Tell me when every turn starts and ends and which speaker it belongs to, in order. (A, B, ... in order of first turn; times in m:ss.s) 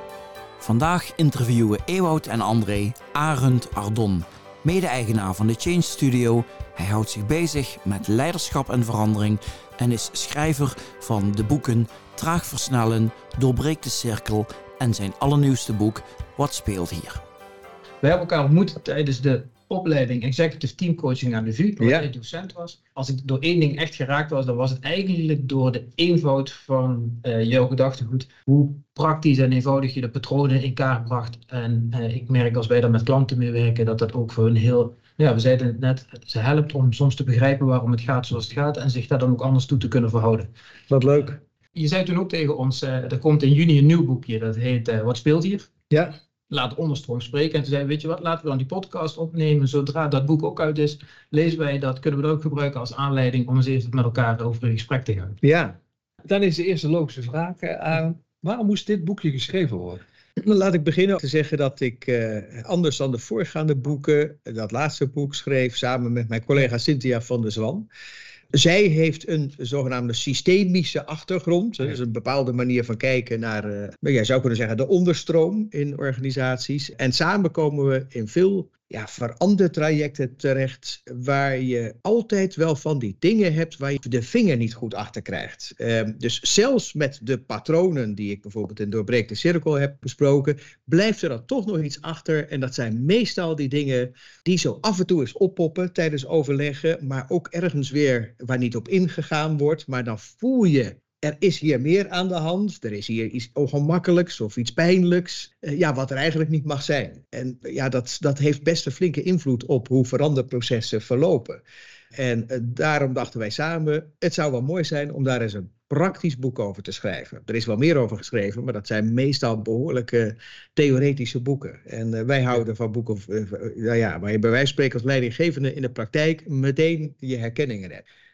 0:00.6-0:17.2 A
0:18.0-0:40.5 B
0:21.8-0:22.1 C
0:40.9-0:41.4 C
0:41.2-0:45.7 B
0:46.5-0:55.4 B
0:55.4-0:55.8 C
0:56.2-1:00.0 D
1:00.4-1:07.9 C
1:08.5-1:51.6 C
1:52.1-2:08.0 C